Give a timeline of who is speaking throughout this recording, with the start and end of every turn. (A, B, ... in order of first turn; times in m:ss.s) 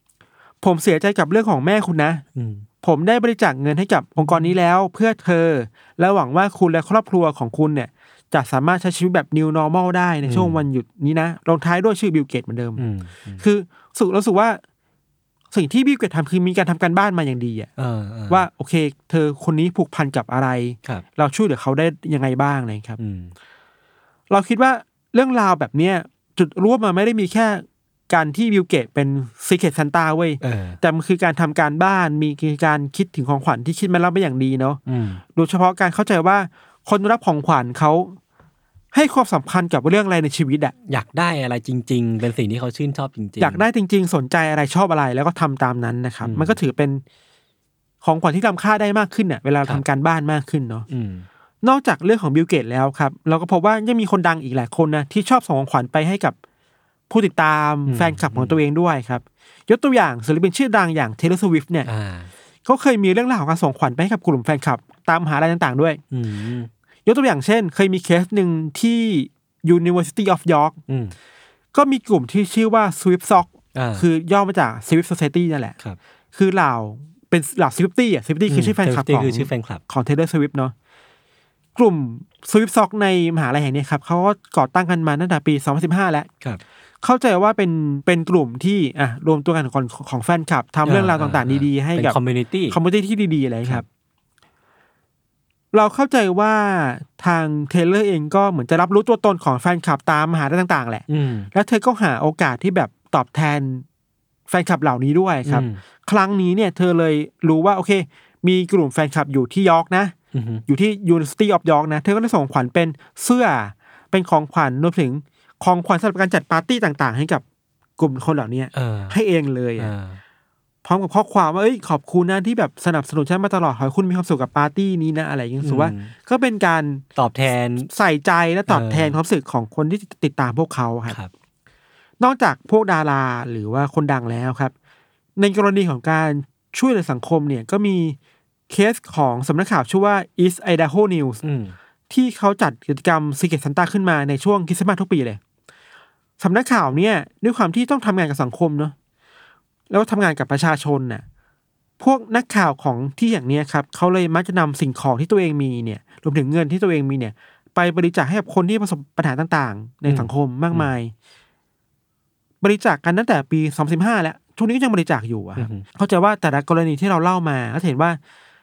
0:00.6-0:02.2 A
0:02.3-0:02.6 B
0:02.8-0:12.8 A
0:04.2-0:04.5 B
0:10.2-0:10.6 B
0:12.8-0:13.4 B
0:13.4-0:14.6 A
0:15.5-0:17.7 A
0:17.8-0:18.4 B
0:18.3-0:23.0 A
0:23.0-0:23.3 B
0:24.3-0:34.8 A
0:30.4-0:30.8 B
0:34.9-0:35.2 B
0:35.3-0:38.2 A
0:38.9-0:40.7 A
0:40.9-0:43.6 B
0:43.4-0:47.0 A
0:46.2-0:46.6 B
0:48.0-0:50.8 A
0:50.9-0:51.2 B
0:51.6-0:56.4 A
0:57.1-1:01.9 A
0:57.9-0:58.6 B
1:01.8-1:02.3 B
1:02.6-1:06.0 A
1:06.1-1:06.7 B
1:07.0-1:10.8 A
1:10.9-1:11.1 B
1:11.7-1:15.8 A
1:13.7-1:14.0 B
1:16.3-1:20.7 A
1:18.5-1:19.8 B
1:21.8-1:26.3 A
1:27.0-1:32.2 A
1:30.8-1:32.8 B
1:32.7-1:33.8 A
1:35.7-1:43.8 A
1:41.1-1:41.5 B
1:44.5-1:50.1 A
1:45.4-1:45.8 B
1:50.3-1:50.6 B
1:50.7-1:57.4 A
1:58.0-1:59.9 A
1:58.7-1:59.2 B
1:59.8-2:00.2 B
2:00.8-2:07.0 A
2:05.6-2:06.1 B
2:07.1-2:07.9 B
2:07.8-2:11.2 A
2:08.7-2:09.2 B
2:12.2-2:14.7 A
2:15.4-2:18.2 A
2:18.7-2:21.4 A
2:21.4-2:21.7 B
2:22.1-2:25.4 A
2:26.4-2:28.9 A
2:29.9-2:31.2 A
2:32.0-2:41.1 A
2:40.0-2:40.9 B
2:42.6-2:48.2 A
2:45.6-2:45.8 B